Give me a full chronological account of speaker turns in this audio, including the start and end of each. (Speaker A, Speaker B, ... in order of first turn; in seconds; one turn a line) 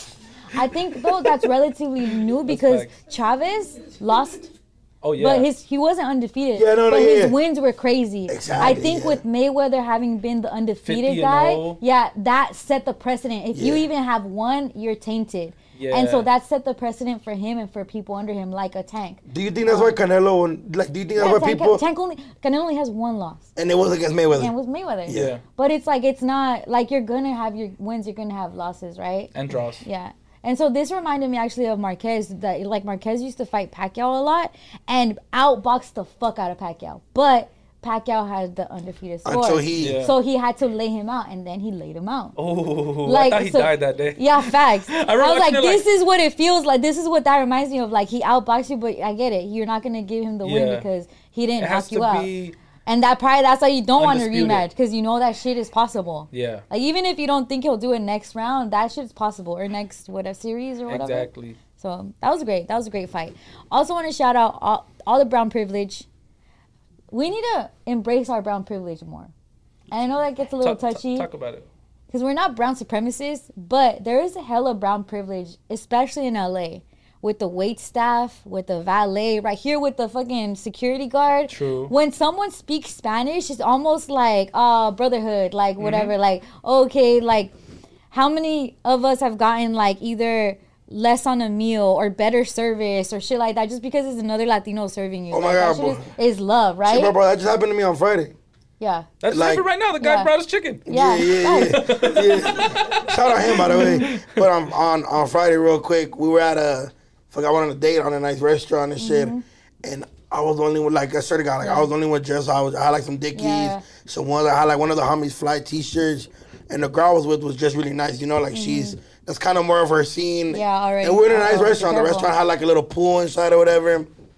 Speaker A: 0.5-4.5
Speaker B: 2.5-2.9
Speaker B: 5.0-5.5
Speaker A: 5.2-19.9
Speaker C: 6.5-7.4
Speaker C: 8.3-9.2
Speaker B: 10.8-11.8
Speaker C: 13.5-13.8
Speaker B: 15.8-16.3
Speaker C: 19.3-21.8
Speaker A: 21.1-23.5
Speaker C: 23.6-24.5
Speaker A: 24.3-29.3
Speaker C: 25.1-25.4
Speaker B: 25.1-25.4
Speaker B: 29.3-29.8
Speaker A: 29.8-42.4
Speaker C: 39.2-40.0
Speaker B: 39.8-40.1
Speaker B: 42.4-45.9
Speaker A: 43.0-52.3
Speaker B: 50.4-50.8
Speaker B: 51.6-52.5
Speaker A: 52.9-66.0
Speaker B: 54.0-54.7
Speaker B: 56.3-56.6
Speaker B: 60.9-61.6
Speaker A: 67.1-69.3
Speaker A: 69.9-71.3
Speaker B: 70.6-71.7
Speaker A: 72.1-87.5
Speaker B: 81.5-81.9
Speaker B: 85.8-86.1
Speaker A: 88.1-97.2
Speaker C: 95.3-96.1
Speaker C: 96.8-98.3
Speaker A: 98.8-99.1
Speaker B: 99.2-100.8
Speaker C: 99.3-99.6
Speaker A: 100.0-100.3
Speaker A: 100.9-102.0
Speaker C: 100.9-109.3
Speaker B: 101.5-104.5
Speaker A: 103.6-104.1
Speaker A: 109.0-109.4
Speaker C: 109.8-124.1
Speaker A: 111.6-111.9
Speaker A: 113.3-113.8
Speaker A: 118.5-119.0
Speaker A: 120.5-122.3